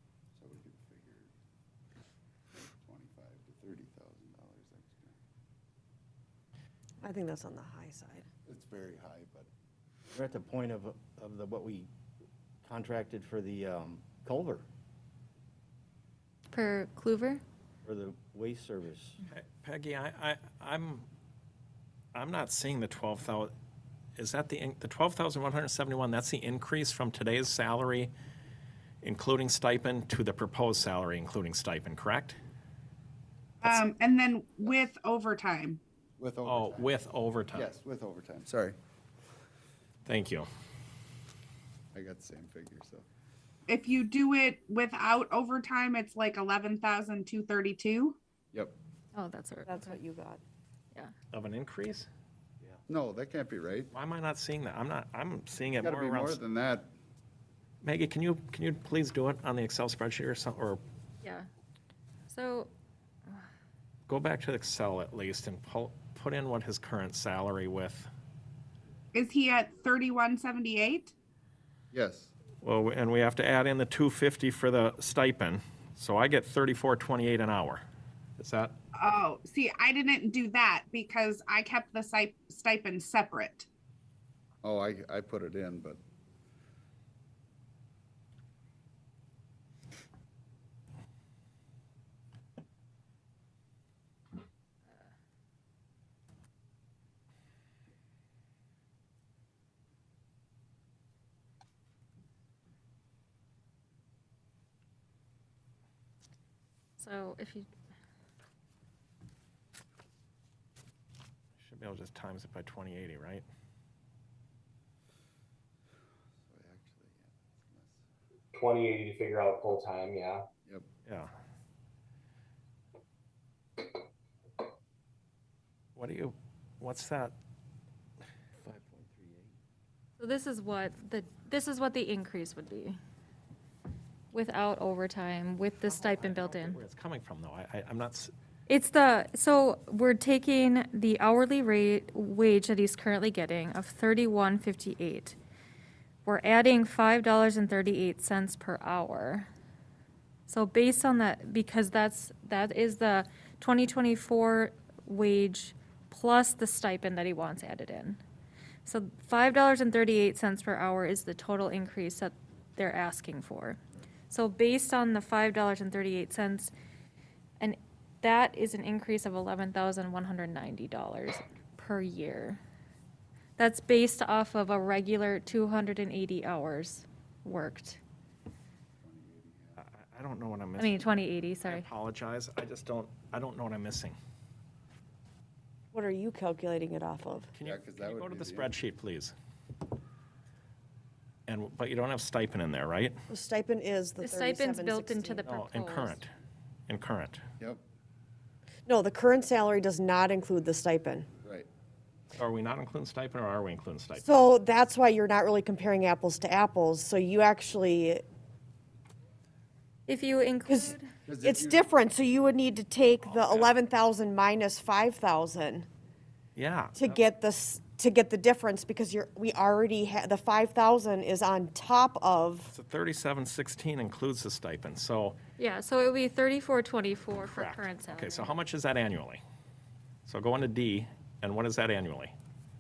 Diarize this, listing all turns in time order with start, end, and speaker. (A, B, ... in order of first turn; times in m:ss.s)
0:00.4-0:01.3 A
0:02.5-0:05.2 A
0:07.0-0:08.3 B
0:08.5-0:09.5 A
0:10.1-0:11.9 C
0:12.6-0:14.7 C
0:16.5-0:17.4 D
0:17.8-0:19.2 C
0:19.3-0:21.0 E
0:22.1-0:23.5 E
0:24.2-0:28.1 E
0:29.0-0:32.4 E
0:33.6-0:35.8 F
0:36.2-0:36.9 A
0:36.4-0:37.7 E
0:37.5-0:38.8 A
0:40.0-0:40.4 E
0:41.9-0:43.0 A
0:43.7-0:48.2 F
0:49.1-0:50.0 D
0:49.7-0:50.4 B
0:51.3-0:52.1 E
0:52.9-0:53.9 A
0:53.9-0:56.4 E
0:55.8-0:56.9 A
0:57.8-1:00.8 E
1:02.3-1:02.7 D
1:04.1-1:08.1 E
1:09.1-1:11.1 F
1:11.9-1:12.3 A
1:12.6-1:17.8 E
1:18.4-1:18.7 E
1:19.0-1:23.7 F
1:24.6-1:26.0 A
1:47.0-1:47.7 D
1:51.6-1:53.4 E
1:56.5-1:58.0 A
1:58.5-2:00.5 G
2:01.1-2:01.3 E
2:05.9-2:07.3 E
2:08.6-2:09.6 C
2:10.2-2:13.0 D
2:14.3-2:16.8 D
2:15.8-2:18.3 E
2:18.7-2:25.4 D
2:26.2-2:29.5 D
2:30.5-2:38.2 D
2:38.8-2:43.8 D
2:44.3-2:46.7 D
2:47.6-2:52.6 D
2:53.6-2:58.0 D
2:59.0-2:59.8 A
2:59.8-3:00.9 E
3:00.8-3:01.9 D
3:01.6-3:04.2 E
3:05.9-3:07.5 B
3:07.5-3:09.3 E
3:07.6-3:08.9 A
3:11.5-3:13.2 E
3:13.3-3:15.4 B
3:14.2-3:16.2 D
3:15.4-3:16.3 E
3:16.9-3:17.4 E
3:18.9-3:21.3 B
3:21.4-3:21.7 A
3:22.4-3:24.2 E
3:24.2-3:28.2 B
3:30.1-3:31.1 D
3:30.7-3:35.9 B
3:31.2-3:31.8 A
3:33.2-3:33.7 E
3:36.6-3:37.2 E
3:37.0-3:42.7 B
3:42.7-3:45.4 E
3:45.6-3:48.6 D
3:47.4-3:49.4 E
3:50.2-3:52.3 E